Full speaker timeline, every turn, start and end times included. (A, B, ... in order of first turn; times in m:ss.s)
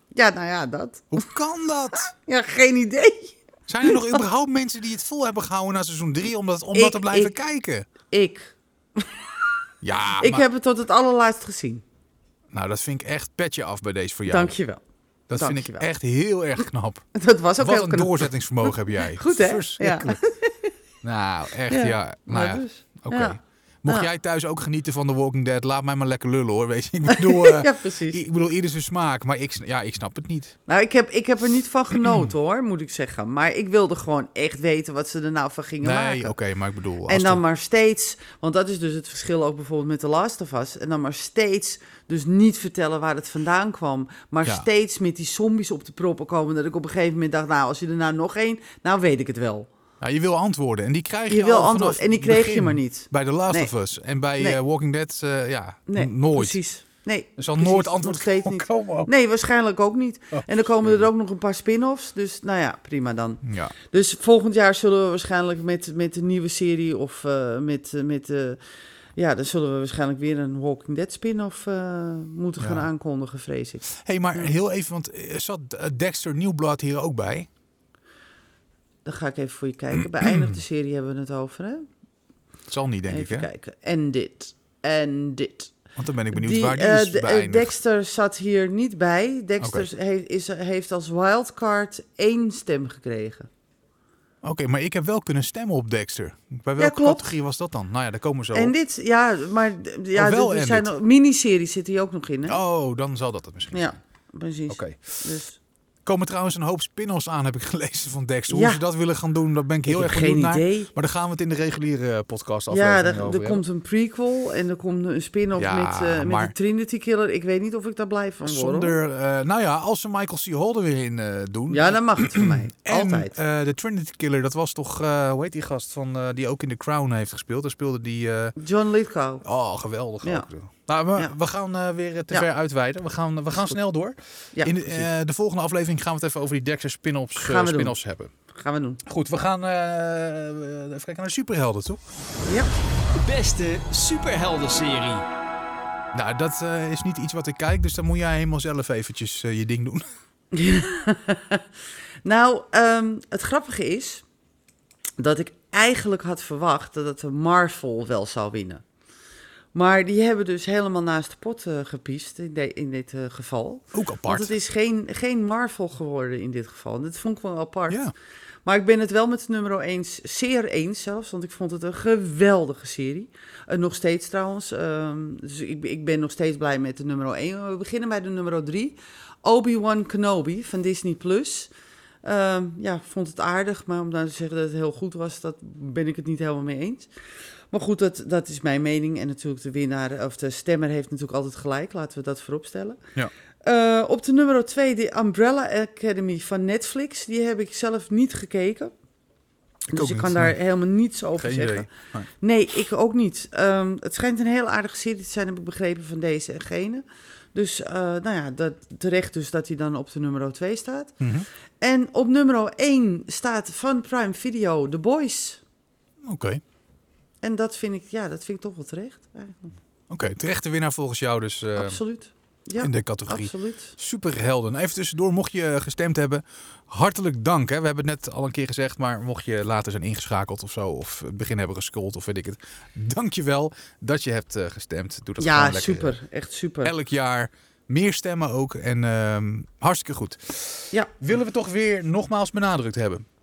0:00.1-0:01.3 A
0:01.1-0:02.1 B
0:02.0-0:04.2 A
0:03.7-0:07.9 B
0:06.7-0:07.4 A
0:08.1-0:09.3 A
0:09.8-0:10.4 B
0:10.2-0:11.8 A
0:12.5-0:14.5 B
0:14.3-0:14.8 A
0:15.3-0:17.1 B
0:15.3-0:15.9 A
0:17.1-0:20.7 A
0:17.6-0:20.2 B
0:21.0-0:30.6 B
0:21.7-0:24.1 A
0:27.1-0:28.2 A
0:30.7-0:36.3 A
0:32.0-0:32.3 B
0:35.8-0:37.4 B
0:37.1-0:49.7 A
0:50.0-0:56.6 B
0:51.3-0:53.7 A
0:55.9-1:08.6 A
0:57.4-0:59.1 B
1:03.4-1:03.7 B
1:09.2-1:14.5 A
1:12.6-1:12.9 B
1:14.0-1:17.5 B
1:19.0-1:21.9 A
1:20.2-1:20.6 B
1:22.7-1:23.5 B
1:23.1-1:25.7 A
1:26.0-1:27.8 B
1:26.3-1:33.5 A
1:29.6-1:29.9 B
1:34.4-1:38.7 B
1:36.8-1:37.2 A
1:38.5-1:42.6 A
1:40.1-1:40.9 B
1:42.5-1:43.9 B
1:43.7-1:45.6 A
1:44.7-1:45.2 B
1:46.0-1:53.6 B
1:48.5-1:48.8 A
1:49.8-1:50.9 A
1:52.7-1:59.0 A
1:55.6-1:56.5 B
1:58.4-2:08.6 B
2:01.7-2:03.4 A
2:08.6-2:09.4 A
2:09.4-2:18.3 B
2:14.5-2:15.0 A
2:17.4-2:18.0 A
2:18.5-2:19.0 A
2:19.0-2:22.0 B
2:22.4-2:22.7 A
2:23.1-2:25.3 C
2:26.1-2:30.0 B
2:30.5-2:31.6 A
2:32.2-2:34.2 A
2:35.2-2:38.8 A
2:39.7-2:48.0 A
2:43.9-2:44.5 B
2:48.6-3:01.7 A
3:02.2-3:07.1 A
3:07.7-3:13.0 A
3:13.6-3:18.9 A
3:19.9-3:21.9 A
3:19.9-3:20.5 B
3:21.4-3:22.3 B
3:22.4-3:31.2 A
3:31.2-3:31.4 B
3:31.8-3:35.6 A
3:36.2-3:36.6 B
3:37.4-3:39.7 A
3:40.1-3:42.0 B
3:41.8-3:43.9 A
3:42.8-3:56.2 B
3:55.4-3:56.9 A
3:56.8-4:03.2 B